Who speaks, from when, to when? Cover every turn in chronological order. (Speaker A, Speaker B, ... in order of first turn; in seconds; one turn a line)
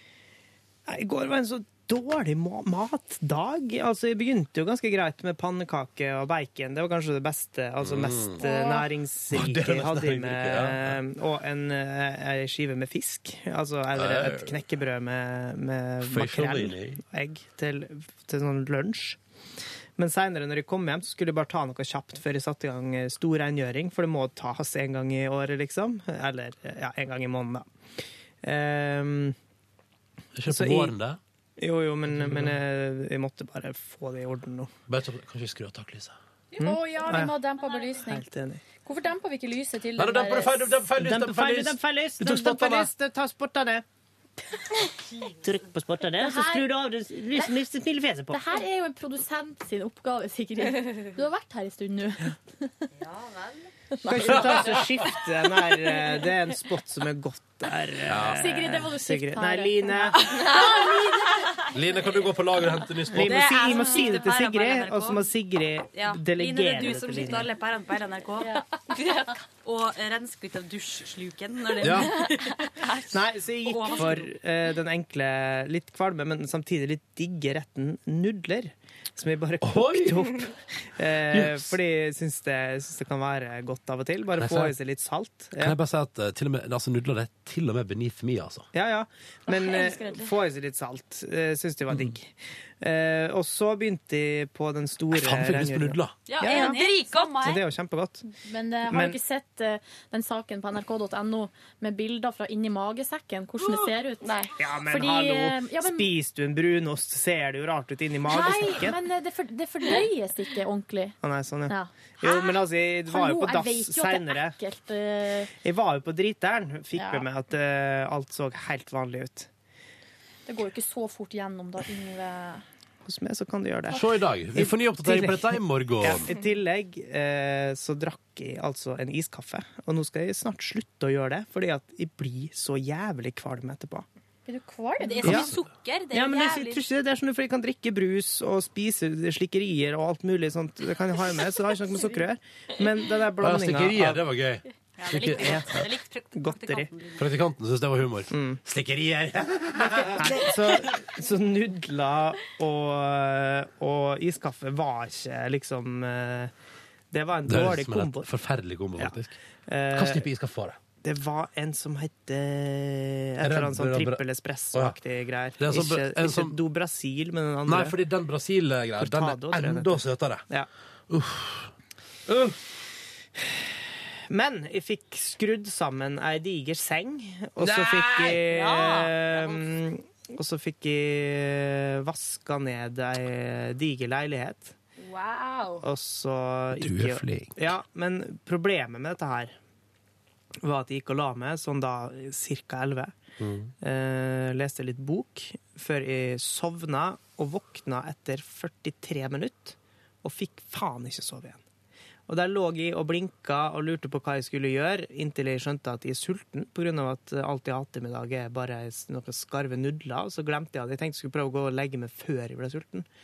Speaker A: 0.9-19.2
Speaker B: 7.8-8.4
Speaker C: 8.4-8.9
Speaker B: 9.3-11.0
Speaker B: 13.9-14.6
Speaker B: 16.0-17.0
Speaker A: 20.0-27.7
Speaker A: 28.4-29.4
Speaker B: 30.4-31.2
Speaker A: 30.5-30.9
Speaker A: 31.6-34.7
Speaker B: 32.1-32.6
Speaker B: 34.9-36.1
Speaker C: 36.5-38.2
Speaker A: 36.6-37.3
Speaker A: 38.0-38.6
Speaker C: 38.8-40.8
Speaker B: 40.0-42.9
Speaker A: 41.0-43.8
Speaker A: 45.3-48.4
Speaker C: 46.2-46.7
Speaker C: 48.3-52.7
Speaker D: 53.0-53.6
Speaker C: 54.0-54.4
Speaker A: 54.0-60.2
Speaker B: 58.0-58.7
Speaker C: 58.4-61.4
Speaker E: 60.2-61.4
Speaker B: 61.7-63.5
Speaker A: 63.1-67.5
Speaker D: 63.2-65.3
Speaker D: 65.9-68.6
Speaker E: 68.9-69.4
Speaker D: 69.6-72.9
Speaker B: 71.8-72.1
Speaker E: 72.2-73.1
Speaker A: 73.1-85.8
Speaker D: 73.6-74.3
Speaker B: 79.6-80.4
Speaker B: 81.3-81.7
Speaker B: 84.4-84.7
Speaker B: 85.6-88.7
Speaker A: 88.7-96.8
Speaker E: 89.5-90.3
Speaker B: 91.9-92.1
Speaker B: 95.1-96.2
Speaker D: 96.2-97.6
Speaker E: 96.4-97.5
Speaker A: 97.4-98.2
Speaker C: 98.4-104.3
Speaker A: 98.9-99.2
Speaker E: 104.2-104.5
Speaker A: 104.6-109.0
Speaker C: 104.9-106.1
Speaker C: 108.3-111.2
Speaker A: 111.2-114.5
Speaker C: 111.7-115.5
Speaker A: 115.6-119.5
Speaker C: 117.0-117.2
Speaker C: 120.5-122.6
Speaker A: 123.0-134.1
Speaker B: 123.9-126.3
Speaker C: 134.5-135.2
Speaker D: 135.0-136.8
Speaker A: 135.2-135.5
Speaker A: 136.1-144.2
Speaker C: 141.9-142.2
Speaker B: 143.4-145.7
Speaker D: 145.0-147.3
Speaker A: 145.2-146.9
Speaker B: 147.2-150.3
Speaker A: 148.3-148.6
Speaker A: 150.1-156.5
Speaker A: 157.1-158.3
Speaker B: 157.5-159.3
Speaker A: 159.7-160.2
Speaker B: 159.9-160.8
Speaker A: 161.0-167.9
Speaker B: 163.4-164.2
Speaker B: 165.6-166.6
Speaker B: 167.7-170.4
Speaker A: 169.0-170.7
Speaker B: 171.1-171.7
Speaker B: 172.3-172.6
Speaker A: 174.3-184.7
Speaker E: 177.6-178.4
Speaker D: 178.4-179.7
Speaker E: 185.0-185.8
Speaker A: 185.8-189.5
Speaker B: 186.7-187.6
Speaker A: 190.6-193.1
Speaker B: 193.4-193.7
Speaker A: 193.8-201.6
Speaker A: 202.3-213.1